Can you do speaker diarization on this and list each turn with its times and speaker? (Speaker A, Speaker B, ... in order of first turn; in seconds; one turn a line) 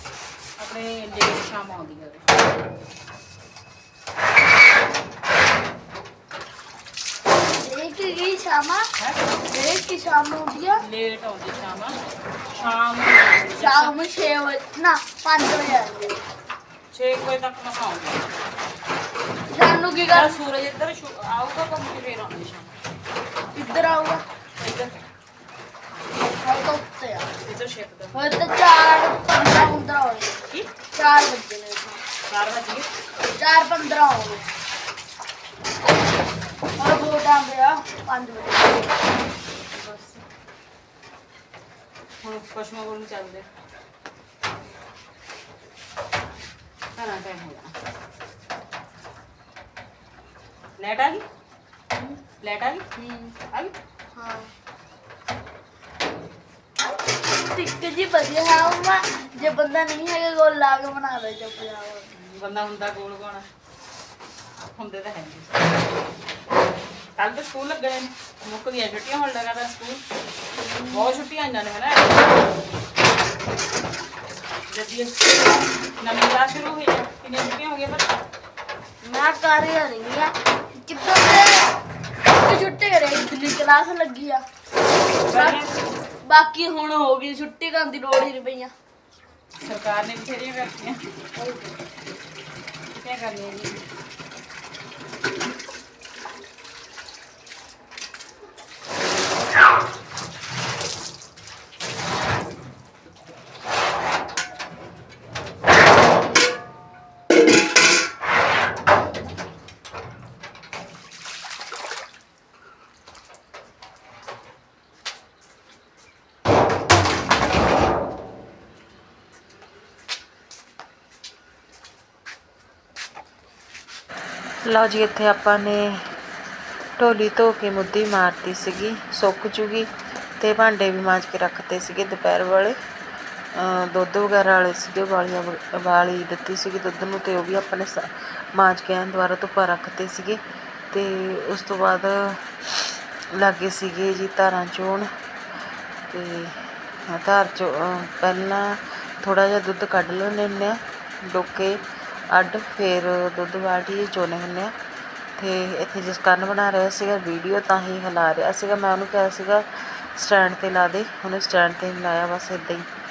Speaker A: 0.6-2.3
Speaker B: 7.6-8.9
Speaker B: 9.4-10.8
Speaker A: 10.7-14.0
Speaker B: 13.6-16.2
Speaker A: 16.9-18.3
Speaker B: 19.5-20.4
Speaker A: 20.1-22.7
Speaker B: 23.5-24.2
Speaker A: 24.6-25.1
Speaker B: 26.4-27.3
Speaker A: 27.4-28.4
Speaker B: 28.1-32.0
Speaker A: 29.4-29.7
Speaker A: 32.3-32.9
Speaker B: 33.3-34.5
Speaker B: 36.8-39.0
Speaker A: 39.7-40.2
Speaker A: 42.2-43.5
Speaker A: 47.0-47.8
Speaker A: 50.8-51.2
Speaker A: 52.4-52.9
Speaker B: 53.0-53.4
Speaker A: 53.5-53.7
Speaker B: 54.1-54.5
Speaker B: 57.3-62.1
Speaker A: 62.1-63.5
Speaker A: 64.7-65.8
Speaker A: 67.2-70.0
Speaker B: 70.6-71.2
Speaker A: 70.9-72.3
Speaker A: 74.7-78.1
Speaker B: 79.0-81.8
Speaker B: 82.3-84.4
Speaker A: 85.2-85.7
Speaker B: 85.3-85.7
Speaker B: 86.2-88.7
Speaker A: 89.6-91.0
Speaker B: 91.4-91.7
Speaker A: 92.9-93.8
Speaker C: 124.7-126.0
Speaker C: 127.0-132.8
Speaker C: 133.6-142.5
Speaker C: 143.3-145.1
Speaker C: 146.1-154.7
Speaker C: 155.4-162.9